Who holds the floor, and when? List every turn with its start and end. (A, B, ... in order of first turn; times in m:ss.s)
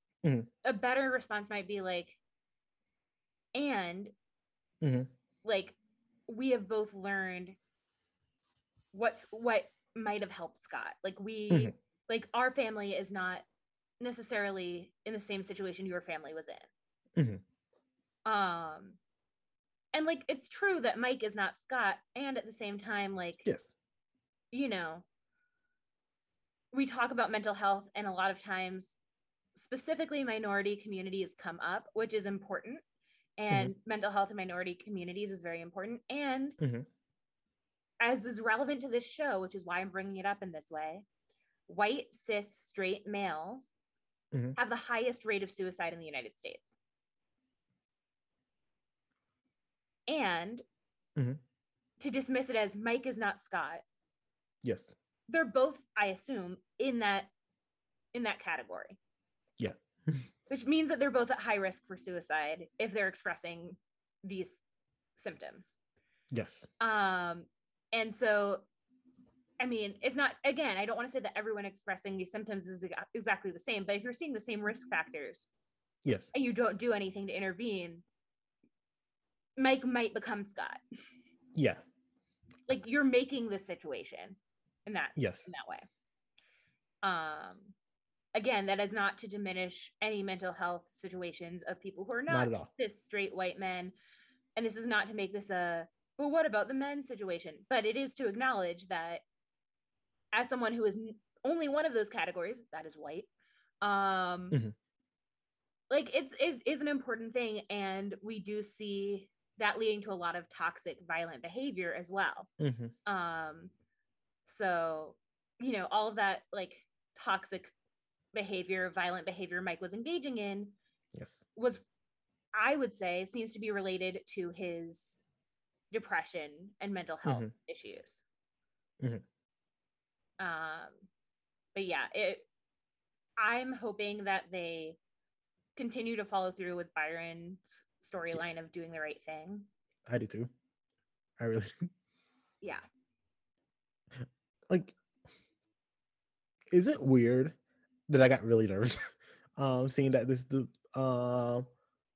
0:00.2-0:00.5 A
0:00.6-0:02.2 B
0:03.5-0:04.1 B
0:04.8-0:05.1 A
0:05.4-0:05.8 B
0:06.3-0:07.6 B
0:08.9-0:13.4 B
0:14.0-0:16.7 B
0:17.2-0:17.4 A
0:18.2-0:19.0 B
0:19.9-0:23.5 B
0:24.5-0:25.0 B
0:26.7-0:29.0 B
0:29.5-0:32.8 B
0:33.4-0:36.6 B
0:36.6-0:36.9 A
0:38.0-0:41.0 B
0:41.7-0:43.8 B
0:44.6-0:46.8 B
0:50.1-0:50.6 B
0:51.2-0:51.4 A
0:52.0-0:53.8 B
0:54.6-0:54.9 A
0:55.3-0:57.3 B
0:58.1-0:59.0 B
0:59.6-1:00.3 A
1:00.5-1:04.6 B
1:05.2-1:05.8 B
1:06.3-1:06.7 A
1:06.8-1:08.7 B
1:09.6-1:15.5 B
1:16.0-1:16.3 A
1:16.3-1:18.0 B
1:19.6-1:20.8 B
1:21.5-1:21.8 A
1:22.7-1:25.9 B
1:25.2-1:25.5 A
1:27.0-1:27.7 B
1:28.3-1:33.9 B
1:32.3-1:32.7 A
1:34.6-1:39.2 B
1:40.3-1:43.3 B
1:43.8-1:44.6 B
1:45.9-1:52.5 B
1:52.6-1:52.9 A
1:53.0-1:53.7 B
1:54.4-1:57.7 B
1:58.3-2:00.7 B
2:01.1-2:01.4 A
2:01.5-2:01.8 B
2:02.5-2:05.3 B
2:05.9-2:08.2 B
2:07.2-2:07.5 A
2:10.4-2:11.0 B
2:11.7-2:12.5 B
2:13.4-2:15.0 B
2:15.8-2:19.7 B
2:20.1-2:20.5 A
2:21.4-2:21.9 A
2:24.7-2:24.9 A
2:26.7-2:27.6 A
2:28.1-2:31.6 A